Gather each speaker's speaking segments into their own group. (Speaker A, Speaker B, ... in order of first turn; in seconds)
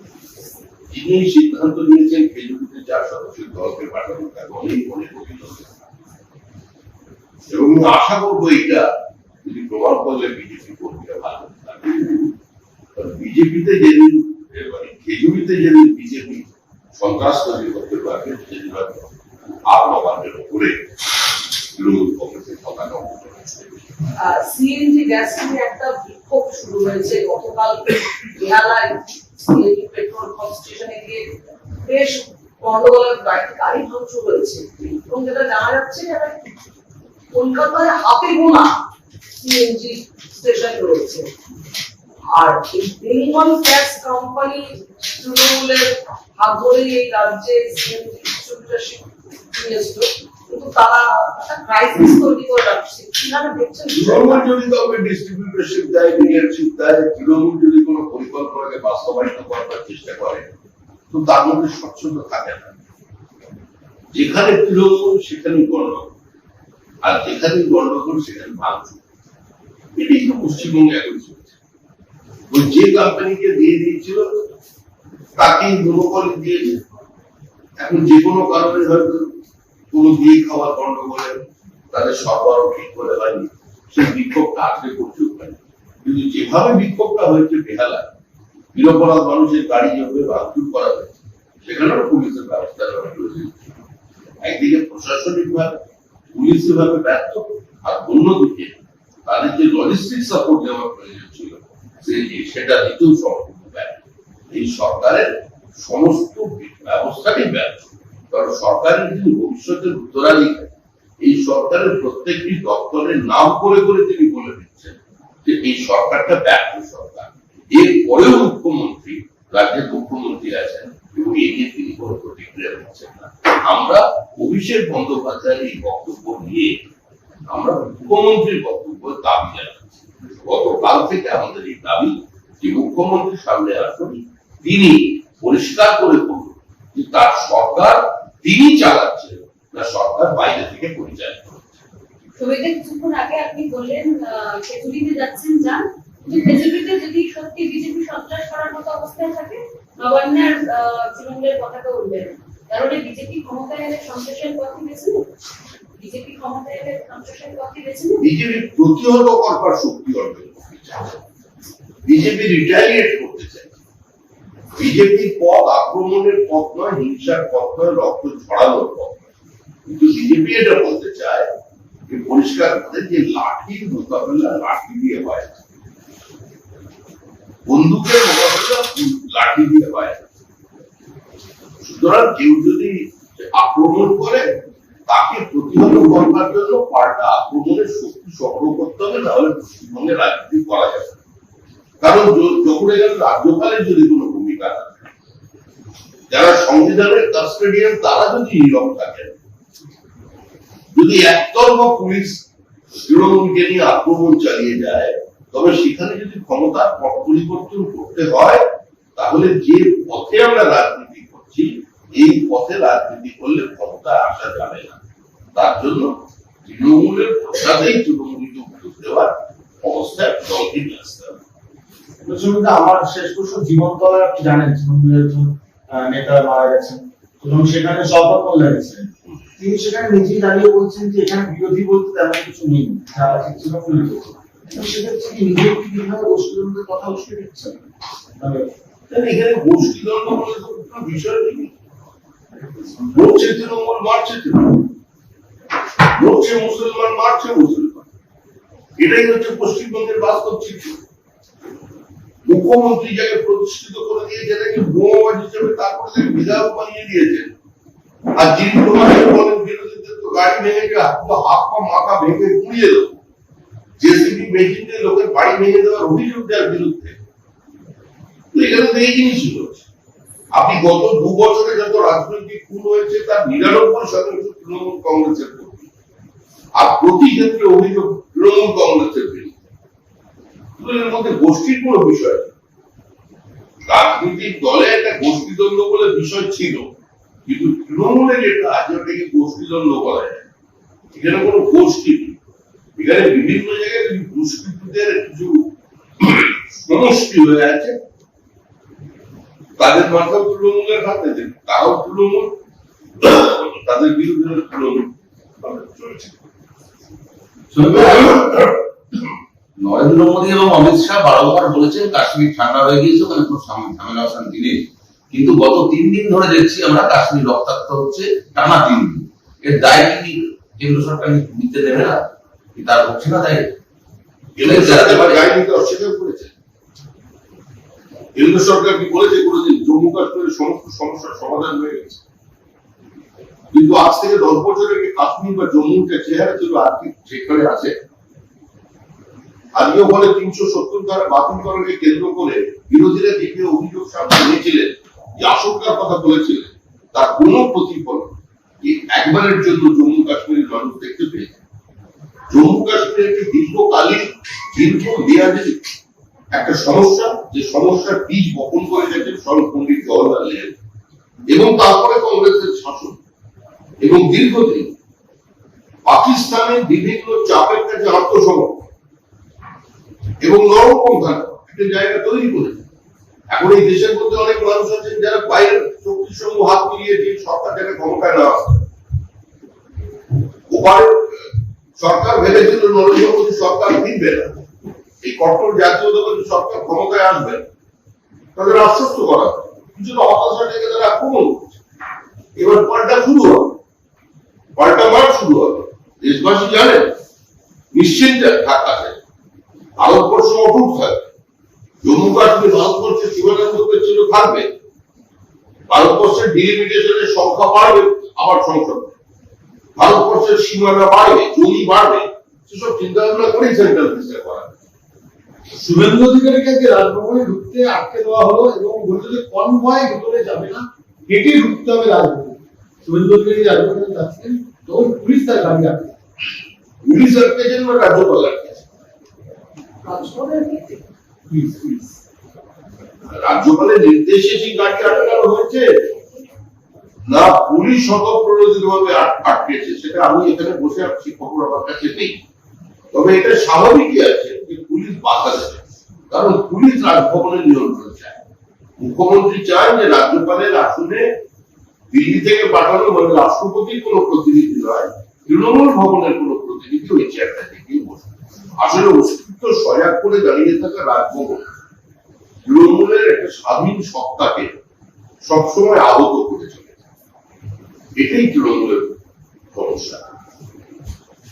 Speaker A: 0.9-5.7, 7.5-8.9, 9.4-12.3, 13.0-19.1, 19.7-23.7, 53.9-60.5, 61.1-62.7, 64.1-66.1, 67.0-69.0, 70.0-71.5, 72.5-74.3, 75.4-76.8, 77.8-79.3, 79.9-88.1, 88.7-93.8, 94.4-104.0, 104.5-126.8, 127.5-141.8, 158.2-161.2, 162.1-163.7, 164.8-169.2, 169.9-171.5, 172.1-175.5, 177.7-180.2, 181.8-184.5, 185.1-191.2, 192.0-195.0, 196.3-199.3, 200.9-208.6, 209.2-215.0, 215.6-221.4, 239.1-241.8, 243.1-244.9, 246.1-248.1, 249.0-251.0, 252.5-257.5, 258.4-263.2, 264.0-267.2, 268.5-269.8, 270.5-275.9, 276.8-279.6, 280.8-282.5, 283.9-286.9, 287.5-290.4, 291.1-292.4, 293.0-295.7, 296.2-298.0, 299.8-302.5, 303.2-305.1, 305.6-306.4, 307.9-308.4, 324.6-326.5, 328.4-332.2, 333.7-337.9, 339.8-351.6, 352.5-355.8, 356.5-360.7, 361.5-363.2, 364.0-364.9, 366.1-368.9, 370.4-372.8, 373.5-378.8, 380.7-384.6, 385.2-387.7, 388.6-391.8, 392.6-393.8, 394.8-397.1, 397.9-399.2, 400.0-401.3, 402.0-404.7, 405.9-409.2, 410.0-414.7, 427.0-428.8, 433.3-435.9, 437.3-442.4, 443.1-448.4, 449.0-451.3, 452.1-461.7, 462.6-464.7, 465.4-467.0, 468.2-469.2, 469.7-470.2
Speaker B: 24.2-31.2, 31.9-36.4, 37.3-38.7, 39.4-41.3, 42.4-54.5, 430.1-431.0, 435.0-435.4
Speaker C: 142.4-155.2, 156.0-158.2
Speaker D: 222.2-237.8, 238.4-238.7
Speaker E: 307.7-308.7, 309.8-314.8, 315.3-322.2, 322.8-323.7, 324.6-325.4
Speaker F: 415.8-426.1, 431.5-432.1